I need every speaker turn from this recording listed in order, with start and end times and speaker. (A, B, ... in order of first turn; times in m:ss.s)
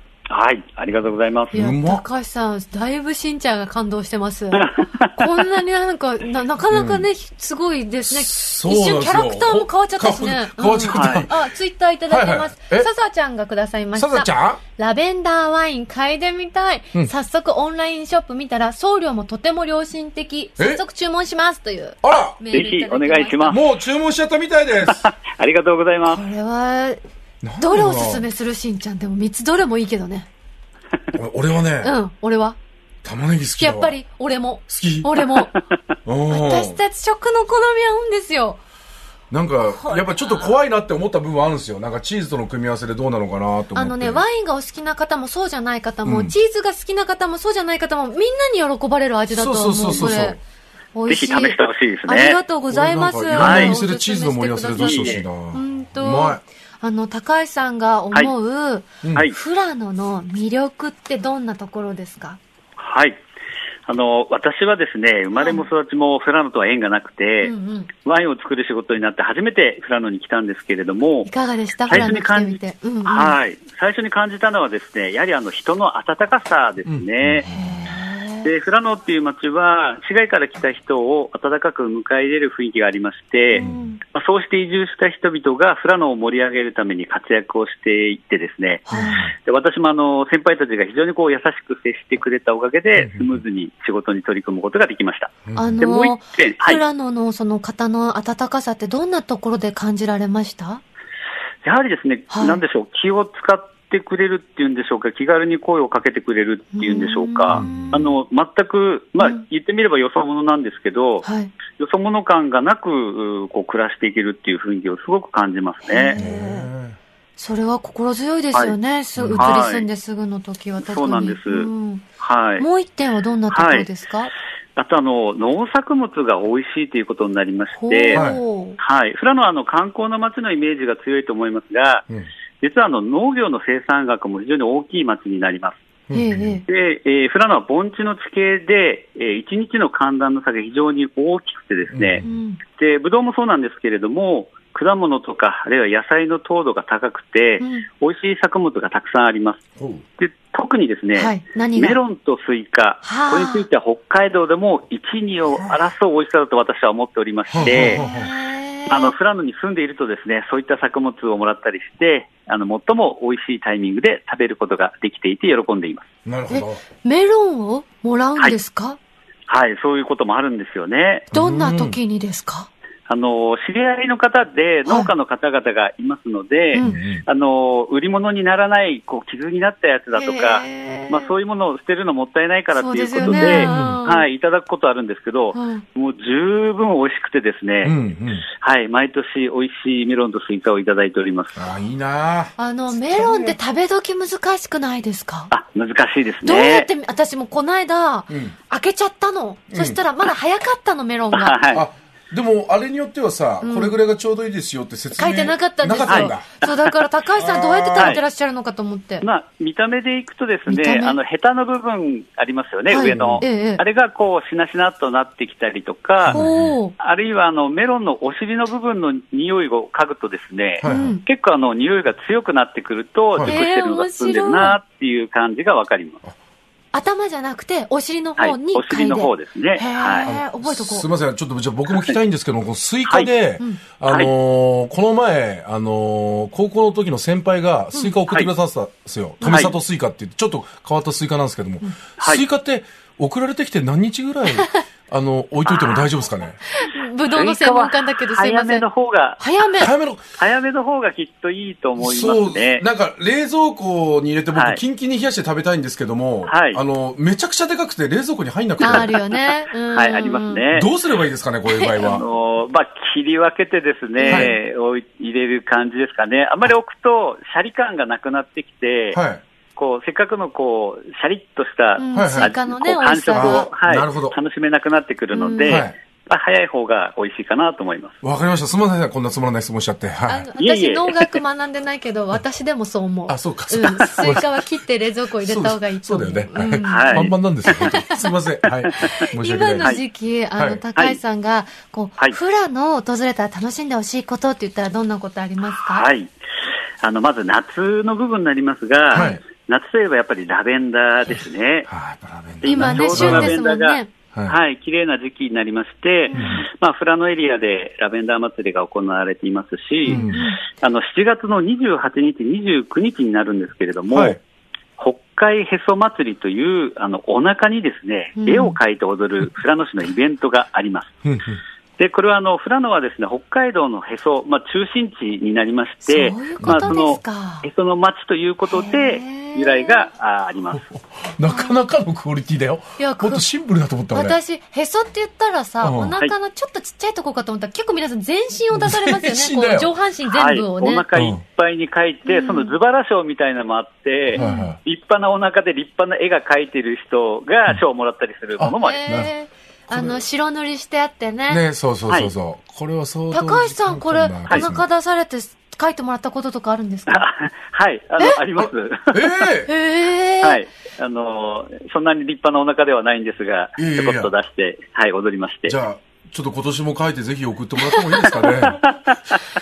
0:00.3-0:01.5 A
0:01.5-0:02.0 B
0:01.5-0:23.6 C
0:04.6-0:05.1 A
0:06.7-0:07.1 B
0:08.0-0:11.5 B
0:10.9-0:11.3 A
0:12.1-0:12.9 B
0:13.9-0:14.6 B
0:20.6-0:20.8 B
0:22.0-0:22.4 B
0:22.5-0:23.6 A
0:23.5-0:25.1 B
0:24.9-0:26.2 A
0:26.0-0:27.0 C
0:27.4-0:28.2 B
0:27.6-0:30.3 C
0:31.1-0:32.0 B
0:31.8-0:32.6 C
0:33.0-0:34.0 B
0:33.6-0:35.5 C
0:34.7-0:35.2 B
0:36.0-0:36.8 B
0:36.3-0:38.6 C
0:39.3-0:44.2 B
0:39.8-0:40.5 C
0:43.7-0:50.4 C
0:46.0-0:46.3 B
0:49.3-0:50.4 B
0:50.9-1:02.4 C
0:51.1-0:52.4 A
0:52.7-0:56.4 B
0:53.4-0:53.8 A
0:54.7-0:55.2 A
0:59.0-0:59.3 B
1:02.8-1:03.2 A
1:03.9-1:11.3 A
1:05.4-1:05.6 C
1:07.4-1:07.9 C
1:11.2-1:13.4 C
1:11.9-1:17.4 A
1:16.8-1:17.9 B
1:17.4-1:18.5 C
1:18.4-1:36.8 A
1:23.5-1:23.9 B
1:23.6-1:24.0 C
1:28.9-1:29.2 C
1:28.9-1:29.3 B
1:33.0-1:33.4 B
1:35.4-1:35.8 B
1:35.5-1:40.8 C
1:41.6-1:56.2 A
1:42.3-1:42.6 C
1:46.7-1:48.1 C
1:47.5-1:48.1 B
1:51.2-1:51.5 C
1:55.8-1:56.7 C
1:56.2-1:57.0 B
1:57.4-2:02.0 C
1:59.2-1:59.6 B
1:59.3-1:59.9 A
2:00.8-2:02.6 A
2:02.6-2:04.3 C
2:03.5-2:03.9 A
2:04.8-2:08.2 A
2:07.8-2:08.8 C
2:08.1-2:08.4 B
2:08.8-2:12.0 A
2:12.6-2:15.8 A
2:16.1-2:16.6 B
2:16.1-2:16.6 C
2:16.7-2:29.6 A
2:21.9-2:22.3 B
2:22.2-2:22.6 C
2:27.6-2:27.8 C
2:29.8-2:30.0 B
2:30.2-2:38.0 A
2:31.1-2:32.0 C
2:33.0-2:33.6 C
2:35.5-2:35.8 B
2:37.5-2:38.3 B
2:37.8-2:39.1 C
2:38.9-2:46.1 A
2:46.2-2:46.8 B
2:46.5-2:49.0 C
2:49.5-2:51.3 A
2:51.3-2:52.0 B
2:51.3-2:52.7 C
2:53.1-3:07.9 A
2:54.8-2:55.1 C
2:56.8-2:57.2 B
3:00.1-3:01.3 C
3:02.8-3:04.2 C
3:03.2-3:04.0 B
3:05.5-3:05.8 C
3:07.8-3:08.5 B
3:08.6-3:11.6 A
3:11.6-3:13.5 B
3:12.6-3:15.5 C
3:15.5-3:16.9 A
3:16.4-3:21.6 C
3:18.3-3:18.6 B
3:19.7-3:20.0 B
3:21.3-3:21.8 A
3:21.7-3:26.5 B
3:23.6-3:24.0 C
3:25.2-3:29.2 C
3:26.1-3:26.9 A
3:27.4-3:28.2 B
3:28.0-3:28.2 A
3:29.2-3:36.5 A
3:30.7-3:31.2 C
3:32.9-3:33.8 C
3:33.0-3:33.4 B
3:36.2-3:36.8 B
3:36.3-3:36.9 C
3:37.0-3:46.2 A
3:40.8-3:41.2 B
3:40.8-3:41.2 C
3:43.4-3:44.8 C
3:46.9-3:51.0 C
3:48.4-3:50.3 A
3:50.2-4:06.6 B
3:59.4-3:59.7 A
4:02.2-4:02.4 A
4:05.6-4:06.1 A
4:06.7-4:08.8 C
4:07.3-4:09.4 A
4:09.4-4:09.9 C
4:09.8-4:10.2 B
4:10.4-4:12.8 A
4:12.0-4:19.1 B
4:14.5-4:14.8 A
4:16.5-4:16.8 A
4:18.8-4:20.6 C
4:18.8-4:19.1 A
4:19.9-4:20.9 A
4:20.7-4:22.2 B
4:21.7-4:22.2 C
4:22.0-4:29.2 A
4:24.2-4:24.5 C
4:24.3-4:24.6 B
4:29.1-4:29.4 B
4:29.8-4:38.2 A
4:32.0-4:33.7 C
4:32.1-4:32.5 B
4:33.3-4:34.4 B
4:35.3-4:35.8 C
4:35.6-4:35.9 B
4:38.2-4:40.5 B
4:40.3-4:48.2 C
4:40.6-4:41.3 A
4:43.3-4:44.5 B
4:45.4-4:50.0 B
4:46.8-4:47.3 A
4:49.1-4:56.0 C
4:50.6-4:50.8 B
4:55.8-4:56.3 A
4:57.0-5:01.9 A
4:59.1-4:59.4 C
4:59.1-4:59.4 B
5:01.9-5:03.6 B
5:02.6-5:04.1 C
5:02.6-5:14.4 A
5:06.3-5:06.6 C
5:06.3-5:06.7 B
5:10.0-5:10.5 B
5:10.1-5:10.6 C
5:14.1-5:14.4 B
5:15.0-5:21.1 A
5:18.4-5:18.8 C
5:21.2-5:21.6 B
5:22.0-5:30.9 A
5:26.0-5:27.7 C
5:26.6-5:27.2 B
5:28.7-5:30.1 C
5:30.7-5:34.4 B
5:31.5-5:31.8 C
5:33.0-5:33.4 C
5:34.1-5:41.0 C
5:35.8-5:36.2 B
5:38.7-5:39.9 B
5:40.3-5:49.2 A
5:41.1-5:41.4 B
5:42.2-5:42.7 C
5:44.3-5:44.7 C
5:44.3-5:44.8 B
5:48.6-5:49.3 B
5:48.7-5:51.6 C
5:49.9-5:50.2 B
5:51.5-5:54.8 B
5:53.3-5:57.3 C
5:57.1-5:59.5 A
5:58.6-5:59.7 B
5:59.6-6:00.6 C
6:00.4-6:05.7 A
6:03.8-6:04.3 B
6:05.7-6:08.9 B
6:07.9-6:08.2 C
6:08.7-6:09.1 A